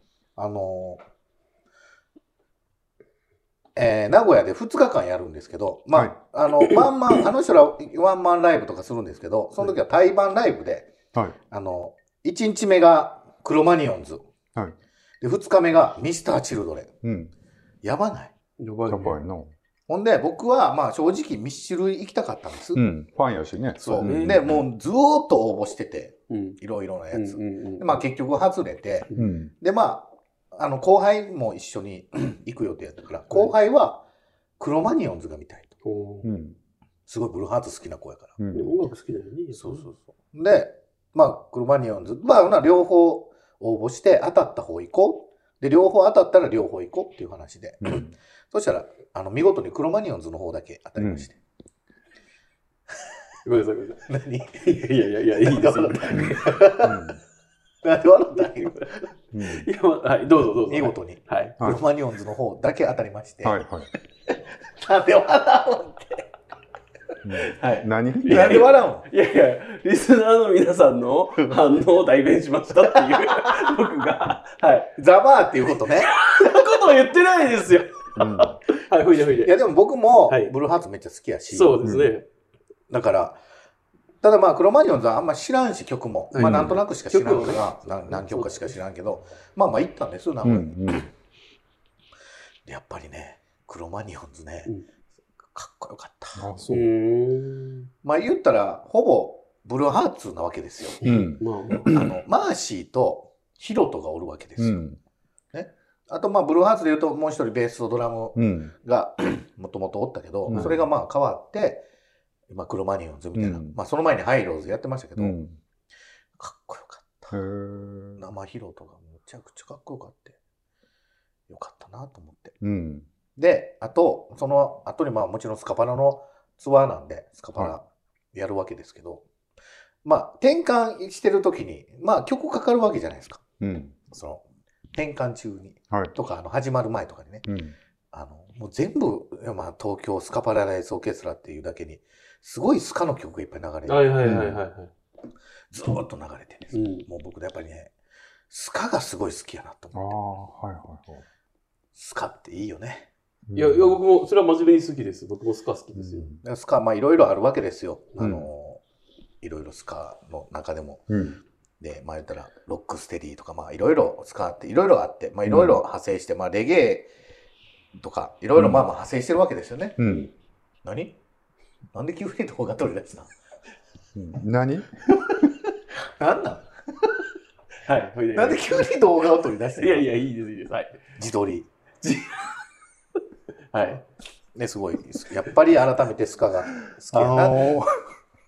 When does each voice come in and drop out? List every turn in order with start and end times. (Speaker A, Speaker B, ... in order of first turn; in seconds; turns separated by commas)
Speaker A: 0.3-1.0, Speaker A: 3.8-10.9, Speaker A: 11.5-14.2, Speaker A: 15.2-16.9, Speaker B: 17.0-17.3, Speaker A: 17.8-18.3, Speaker C: 18.6-19.2, Speaker B: 18.9-19.5, Speaker A: 19.9-22.8, Speaker B: 22.7-24.6, Speaker C: 23.8-24.4, Speaker A: 23.8-29.1, Speaker C: 26.3-26.6, Speaker C: 27.1-28.0, Speaker B: 29.1-29.5, Speaker A: 29.6-34.0, Speaker A: 34.6-35.7, Speaker C: 35.8-36.3, Speaker B: 36.2-36.6, Speaker A: 37.1-38.4, Speaker B: 38.4-38.8, Speaker C: 38.5-39.9, Speaker A: 39.5-51.4, Speaker B: 47.8-48.1, Speaker B: 51.0-51.3, Speaker C: 53.4-54.0, Speaker A: 54.1-57.1, Speaker C: 54.5-56.6, Speaker B: 56.8-57.2, Speaker A: 57.8-59.0, Speaker B: 59.3-59.7, Speaker C: 59.4-61.6, Speaker A: 60.6-63.6, Speaker B: 63.4-63.9, Speaker A: 64.7-66.3, Speaker B: 67.2-68.7, Speaker C: 67.4-74.9, Speaker A: 68.3-69.1, Speaker A: 73.0-73.6, Speaker A: 75.0-76.1, Speaker C: 76.0-79.5, Speaker B: 78.2-78.6, Speaker A: 79.4-81.8, Speaker C: 80.3-80.5, Speaker C: 81.5-82.2, Speaker B: 81.8-82.1, Speaker A: 82.9-83.4, Speaker A: 84.2-91.0, Speaker C: 86.3-88.7, Speaker B: 86.4-86.8, Speaker B: 90.4-91.1, Speaker A: 92.7-94.7, Speaker A: 95.5-96.5, Speaker B: 96.3-96.9, Speaker C: 96.7-97.9, Speaker A: 98.0-101.0, Speaker C: 101.0-101.9, Speaker B: 101.0-102.2, Speaker A: 101.9-104.8, Speaker B: 104.6-105.0, Speaker A: 105.5-111.8, Speaker B: 108.3-108.7, Speaker B: 110.5-110.8, Speaker C: 110.5-110.8, Speaker A: 112.5-115.4, Speaker B: 113.3-113.8, Speaker B: 115.2-115.6, Speaker A: 116.4-117.3, Speaker B: 117.3-118.2, Speaker A: 118.2-120.4, Speaker A: 121.5-122.5, Speaker B: 122.6-123.1, Speaker A: 123.3-129.2, Speaker A: 130.0-133.4, Speaker B: 133.6-134.0, Speaker A: 134.1-134.4, Speaker A: 134.9-137.5, Speaker B: 137.5-137.7, Speaker A: 138.1-144.3, Speaker C: 143.9-144.9, Speaker B: 144.2-144.6, Speaker A: 145.7-147.9, Speaker C: 146.7-147.1, Speaker A: 148.5-150.2, Speaker B: 149.9-151.2, Speaker A: 151.9-153.1, Speaker B: 153.5-154.0, Speaker C: 153.5-156.3, Speaker B: 155.9-156.4, Speaker A: 156.4-158.8, Speaker B: 158.2-158.5, Speaker A: 159.4-161.2, Speaker B: 161.1-161.4, Speaker A: 161.8-167.1, Speaker B: 165.4-165.8, Speaker A: 167.9-170.1, Speaker B: 168.5-168.8, Speaker B: 170.0-170.3, Speaker A: 170.8-171.2, Speaker A: 171.9-173.3, Speaker B: 174.1-174.9, Speaker A: 175.2-175.5, Speaker A: 176.1-177.2, Speaker C: 177.8-178.7, Speaker A: 178.3-180.1, Speaker C: 179.8-181.0, Speaker A: 181.2-182.3, Speaker C: 183.7-184.0, Speaker A: 184.5-187.7, Speaker B: 187.1-187.9